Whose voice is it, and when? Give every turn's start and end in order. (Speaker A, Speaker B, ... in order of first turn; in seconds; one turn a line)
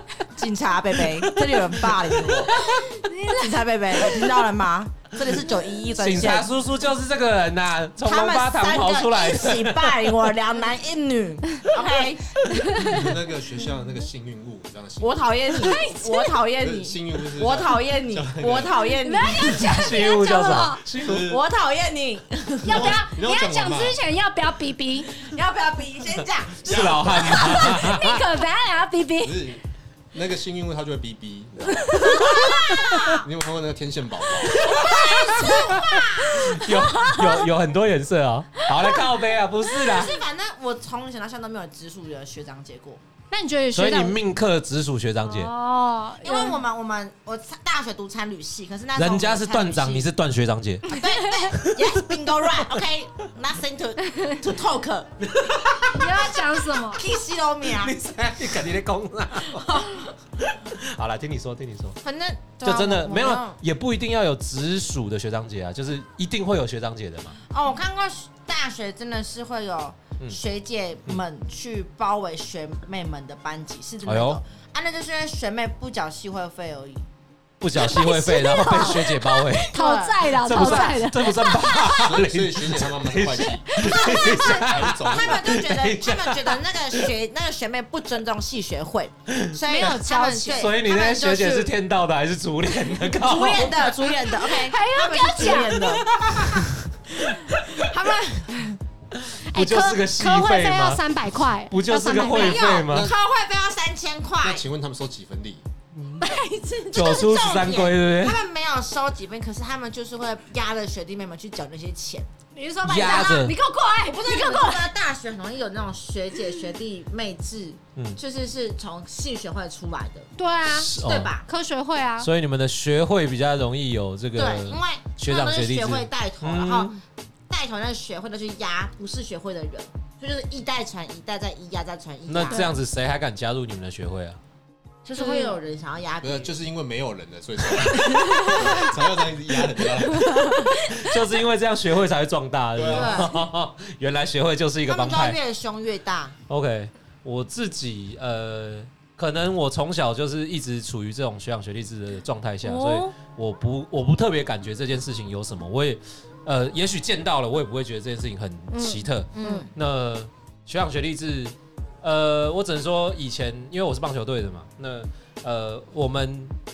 Speaker A: 0.3-2.6
Speaker B: 1.1-2.6
Speaker C: 2.5-3.6
Speaker A: 3.3-6.5
Speaker B: 6.0-10.3
Speaker A: 8.0-12.4
Speaker B: 12.6-13.0
Speaker D: 12.8-15.3
Speaker A: 15.0-19.8
Speaker C: 15.5-16.4
Speaker D: 16.6-18.9
Speaker C: 19.0-20.8
Speaker B: 19.6-21.2
Speaker D: 21.0-21.4
Speaker A: 21.0-23.0
Speaker C: 22.6-25.1
Speaker D: 22.6-24.0
Speaker A: 25.1-27.6
Speaker B: 26.6-28.3
Speaker D: 26.6-27.8
Speaker C: 27.3-29.4
Speaker D: 29.2-32.0
Speaker C: 31.9-33.0
Speaker A: 31.9-33.3
Speaker D: 33.1-34.8
Speaker A: 34.4-36.6
Speaker C: 34.6-35.5
Speaker B: 35.4-40.2
Speaker C: 36.2-37.5
Speaker C: 38.6-39.0
Speaker A: 39.7-43.0
Speaker C: 43.3-44.2
Speaker B: 43.7-45.5
Speaker C: 45.2-46.6
Speaker A: 46.2-50.0
Speaker B: 48.9-51.0
Speaker A: 50.9-57.9
Speaker B: 51.6-52.2
Speaker B: 55.5-55.8
Speaker C: 55.9-57.0
Speaker B: 57.6-62.0
Speaker A: 59.5-60.1
Speaker A: 62.0-63.6
Speaker B: 62.6-67.4
Speaker A: 67.5-77.1
Speaker B: 74.0-74.4
Speaker B: 77.6-87.1
Speaker C: 77.7-81.9
Speaker A: 78.8-81.7
Speaker D: 81.9-83.8
Speaker C: 83.6-84.6
Speaker A: 83.8-91.7
Speaker D: 84.4-85.6
Speaker B: 89.3-89.9
Speaker C: 89.7-90.7
Speaker B: 90.5-94.1
Speaker A: 93.2-96.7
Speaker C: 94.4-96.0
Speaker B: 96.3-96.7
Speaker A: 97.2-98.8
Speaker B: 99.2-101.0
Speaker C: 99.5-102.7
Speaker B: 101.7-103.1
Speaker A: 102.3-104.6
Speaker D: 102.9-103.1
Speaker D: 104.4-105.6
Speaker B: 105.9-106.2
Speaker A: 106.2-112.3
Speaker B: 106.9-108.4
Speaker C: 112.5-114.8
Speaker B: 112.8-113.5
Speaker A: 114.0-120.3
Speaker C: 120.4-120.9
Speaker B: 120.7-121.3
Speaker A: 120.9-121.5
Speaker C: 121.5-122.3
Speaker B: 122.2-127.0
Speaker A: 124.3-132.7
Speaker B: 132.3-134.4
Speaker C: 132.5-132.8
Speaker A: 135.0-136.5
Speaker C: 135.2-135.6
Speaker D: 136.2-140.6
Speaker A: 137.8-139.0
Speaker C: 138.4-138.9
Speaker C: 140.2-141.1
Speaker B: 141.0-145.4
Speaker D: 142.7-143.3
Speaker A: 142.8-143.4
Speaker A: 144.9-146.3
Speaker B: 146.5-166.5
Speaker C: 152.6-153.1
Speaker C: 158.7-159.7
Speaker A: 159.3-159.7